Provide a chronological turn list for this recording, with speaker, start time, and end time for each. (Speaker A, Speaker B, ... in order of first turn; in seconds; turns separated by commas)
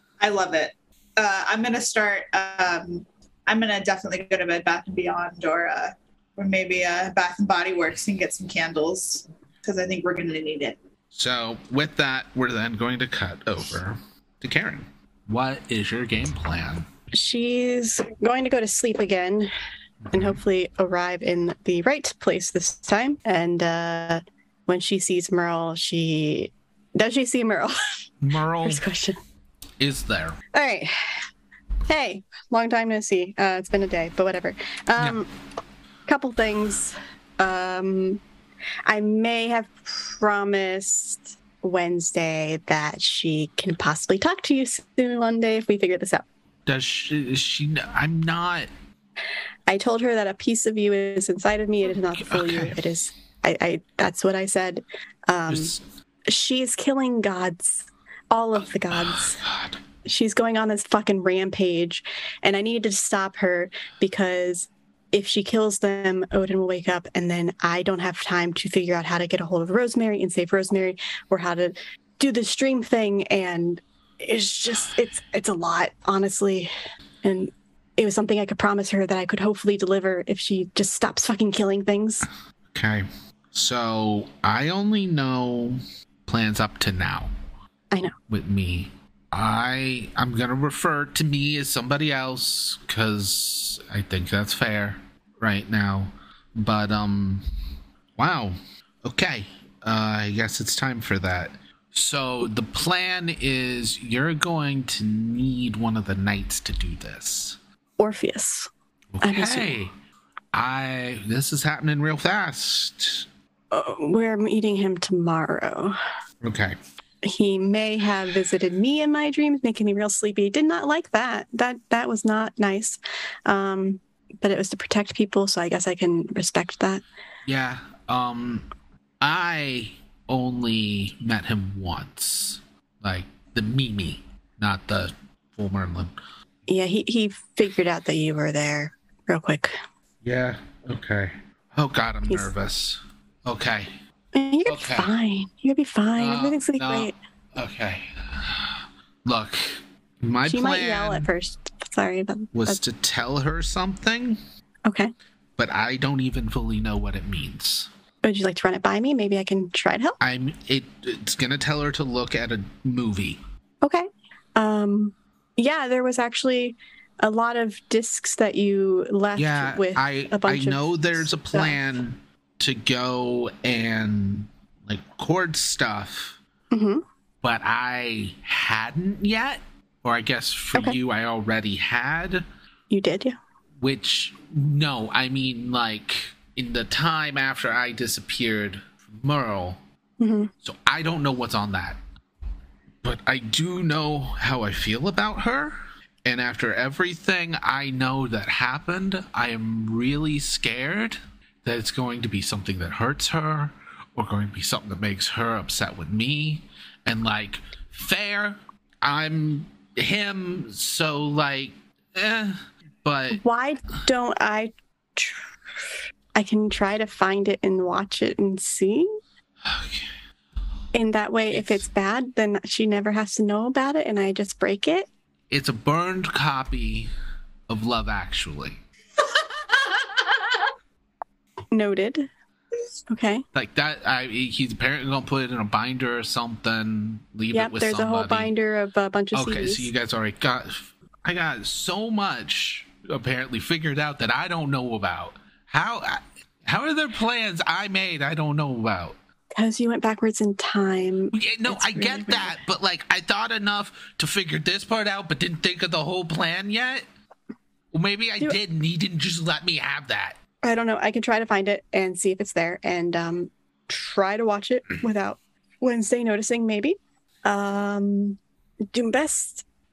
Speaker A: 0.2-10.8, Speaker B: 11.1-16.9, Speaker C: 17.1-19.5, Speaker B: 20.1-20.4, Speaker C: 20.1-27.8, Speaker B: 28.2-28.8, Speaker C: 28.6-29.2, Speaker B: 29.8-30.4, Speaker C: 30.5-30.9, Speaker C: 31.9-35.3, Speaker C: 36.1-38.2, Speaker C: 38.9-46.2, Speaker B: 46.7-48.7, Speaker C: 49.7-55.8, Speaker B: 52.1-52.8, Speaker B: 55.5-55.8, Speaker C: 56.3-59.4, Speaker B: 58.9-59.8, Speaker C: 60.0-76.7, Speaker C: 77.2-82.3, Speaker B: 82.7-87.3, Speaker B: 88.3-97.4, Speaker B: 98.2-107.6, Speaker C: 108.0-108.7, Speaker B: 109.1-109.9, Speaker C: 109.2-109.7, Speaker B: 110.5-113.3, Speaker C: 113.7-116.0, Speaker B: 116.4-116.8, Speaker C: 117.2-127.0, Speaker B: 127.5-128.7, Speaker B: 129.2-136.2, Speaker C: 136.7-139.8, Speaker B: 140.2-143.9, Speaker C: 142.3-142.5, Speaker C: 144.3-147.2, Speaker B: 144.7-145.1, Speaker B: 146.2-151.3, Speaker C: 150.5-152.8, Speaker B: 152.5-154.4, Speaker C: 154.8-155.1, Speaker B: 155.6-157.9, Speaker C: 158.2-160.2, Speaker B: 160.2-163.4, Speaker C: 163.8-172.0, Speaker B: 169.4-176.4, Speaker C: 176.7-177.0, Speaker B: 177.4-182.4, Speaker C: 182.9-183.4, Speaker B: 183.8-189.8, Speaker C: 190.2-190.5, Speaker B: 190.6-192.0, Speaker B: 193.0-213.4, Speaker C: 213.3-219.1, Speaker B: 219.6-220.1, Speaker C: 220.9-225.1, Speaker B: 221.5-221.9, Speaker B: 225.5-227.1, Speaker B: 227.7-228.8, Speaker C: 231.7-232.3, Speaker C: 233.1-233.4, Speaker B: 233.5-238.5, Speaker C: 237.5-239.9, Speaker B: 239.3-249.2, Speaker C: 249.6-252.6, Speaker B: 251.3-257.1, Speaker B: 257.9-260.4, Speaker C: 260.6-268.4, Speaker C: 268.9-269.6